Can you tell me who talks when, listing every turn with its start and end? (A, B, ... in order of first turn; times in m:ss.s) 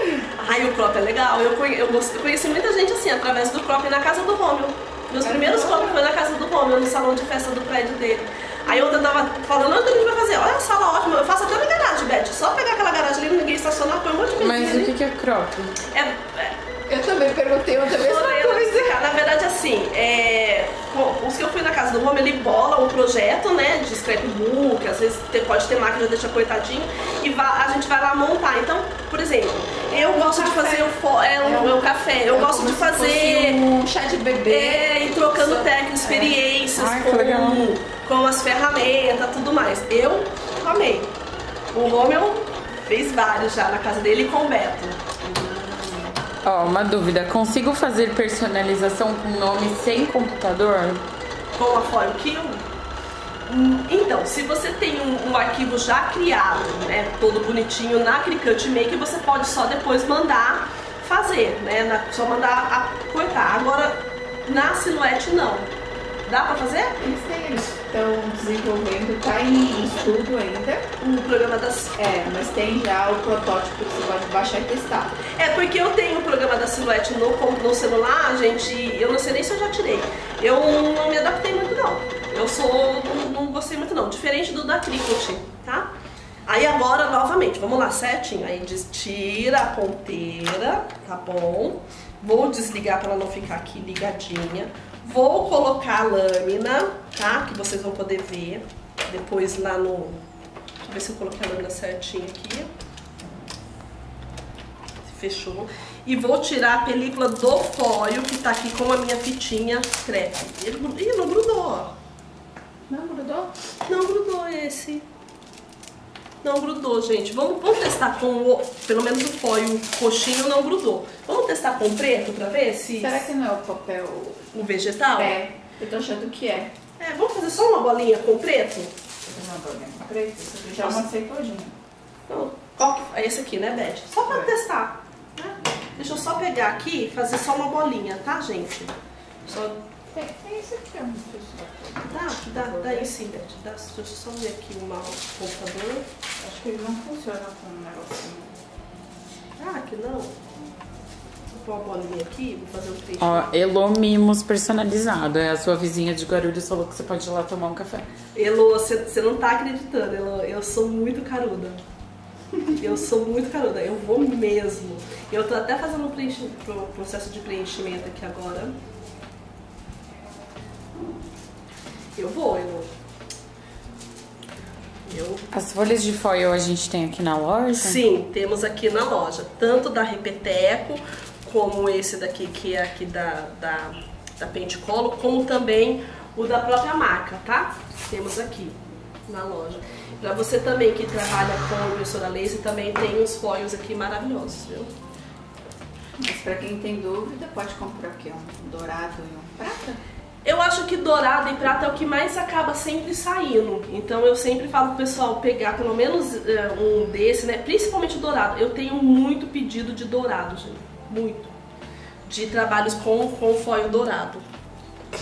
0:00.4-0:14.9 A
0:05.2-0:06.0 B
0:08.7-0:09.0 B
0:14.4-0:15.8 C
0:15.9-0:16.6 A
0:16.9-0:18.9 B
0:17.9-0:33.6 A
0:29.9-0:36.4 B
0:34.5-0:41.1 A
0:36.8-0:37.7 C
0:41.7-0:45.2 A
0:45.2-0:46.1 B
0:46.4-0:51.0 C
0:51.6-0:52.6 A
0:53.5-1:05.7 A
1:06.3-1:07.0 A
1:07.0-1:10.9 B
1:11.0-1:12.0 A
1:12.0-1:15.2 B
1:15.4-1:25.9 A
1:26.5-1:40.2 A
1:40.8-1:42.7 A
1:45.1-1:51.9 A
1:52.9-1:53.5 B
1:53.9-1:55.0 A
1:56.4-2:03.3 A
2:03.0-2:04.5 B
2:04.5-2:05.4 A
2:05.2-2:06.7 B
2:07.0-2:08.9 A
2:09.3-2:11.7 B
2:12.3-2:19.0 A
2:19.5-2:19.8 A
2:20.1-2:23.1 B
2:22.1-2:26.1 A
2:26.4-2:28.6 B
2:29.6-2:30.3 A
2:31.5-2:33.5 A
2:33.2-2:38.1 C
2:38.3-2:41.8 A
2:42.7-2:48.7 A
2:52.2-2:52.9 A
2:55.1-2:55.5 A
2:55.5-2:58.0 C
2:57.8-3:08.8 A
3:09.3-3:14.9 A
3:16.2-3:20.0 B
3:20.4-3:31.5 A
3:32.3-3:34.4 A